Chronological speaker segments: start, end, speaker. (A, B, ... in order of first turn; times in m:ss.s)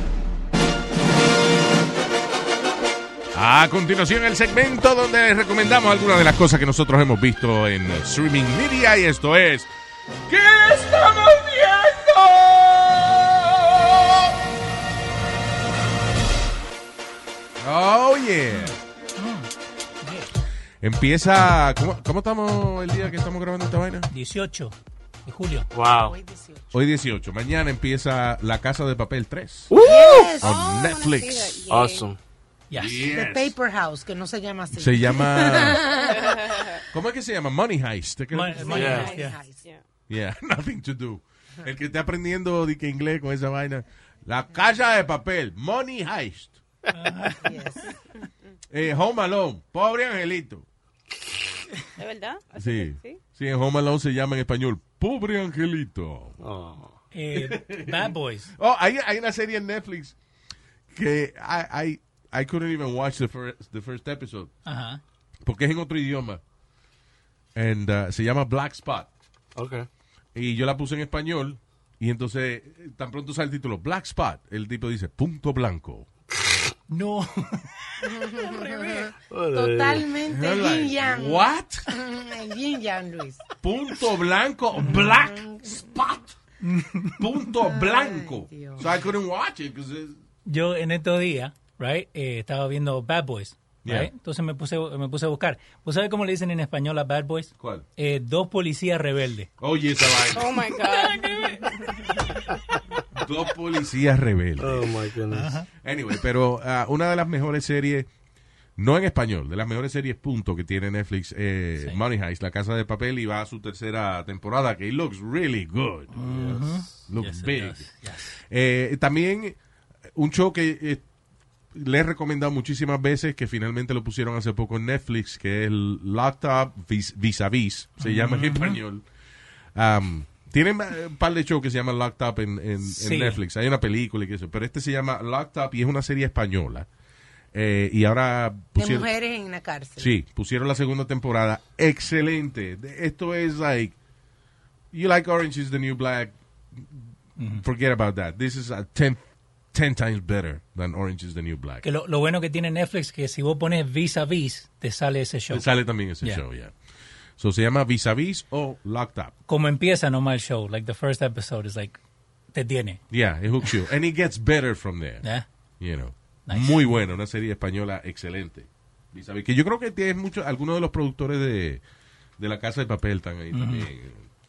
0:03.3-0:09.7 A
0:10.3-0:14.3 A
0:17.6-0:18.8 A
0:18.5-0:19.5 B
0:20.0-0:20.3 B
0:20.8-0:24.1 A
0:24.1-0:25.7 B
0:25.8-0:26.2 C
0:25.8-0:26.7 D
0:26.7-0:29.7 A
0:29.8-0:30.6 D
0:30.4-0:31.6 A
0:30.4-0:32.1 E
0:31.7-0:32.2 C
0:32.7-0:33.0 B
0:32.8-0:33.6 A
0:33.1-0:36.3 D
0:34.7-0:36.0 A
0:36.1-0:36.8 E
0:36.9-0:38.8 A
0:38.3-0:39.4 B
0:38.5-0:39.6 D
0:38.7-0:39.8 E
0:38.7-0:39.1 C
0:40.1-0:46.6 A
0:46.9-0:47.5 B
0:47.4-0:48.2 D
0:48.7-0:50.7 A
0:52.0-0:53.2 E
0:52.6-0:56.4 A
0:56.4-0:57.0 C
0:57.1-0:58.5 B
0:57.4-1:00.2 A
1:00.9-1:04.5 A
1:04.6-1:05.0 B
1:05.4-1:06.4 A
1:07.6-1:09.1 A
1:09.6-1:09.9 C
1:10.4-1:16.1 A
1:16.9-1:19.0 B
1:18.0-1:23.5 D
1:19.3-1:20.1 C
1:20.3-1:21.9 A
1:23.6-1:26.4 A
1:24.8-1:25.9 D
1:26.6-1:27.2 B
1:27.2-1:30.2 A
1:27.6-1:28.9 D
1:30.5-1:39.5 B
1:33.8-1:34.1 A
1:37.6-1:37.9 A
1:39.6-1:40.6 A
1:40.3-1:42.0 E
1:40.9-1:42.2 B
1:43.2-1:44.9 A
1:44.6-1:45.5 C
1:45.3-1:45.7 B
1:45.8-1:48.1 A
1:48.8-1:56.2 A
1:56.1-1:58.4 B
1:56.3-1:56.9 C
1:57.1-1:57.9 A
1:58.5-1:59.6 A
2:00.2-2:01.0 A
2:01.7-2:09.0 A
2:08.0-2:08.8 B
2:09.8-2:16.9 A
2:12.8-2:13.4 B
2:17.5-2:19.1 A
2:18.8-2:20.1 D
2:20.0-2:24.0 A
2:24.9-2:26.4 A
2:27.4-2:27.6 B
2:27.6-2:29.2 A
2:29.7-2:31.8 A
2:31.8-2:36.4 B
2:35.5-2:36.7 A
2:37.4-2:39.3 A
2:39.5-2:42.0 B
2:42.5-2:43.0 B
2:43.1-2:45.2 A
2:45.8-2:51.8 A
2:46.5-2:46.9 B
2:52.4-2:54.3 A
2:53.5-2:53.9 B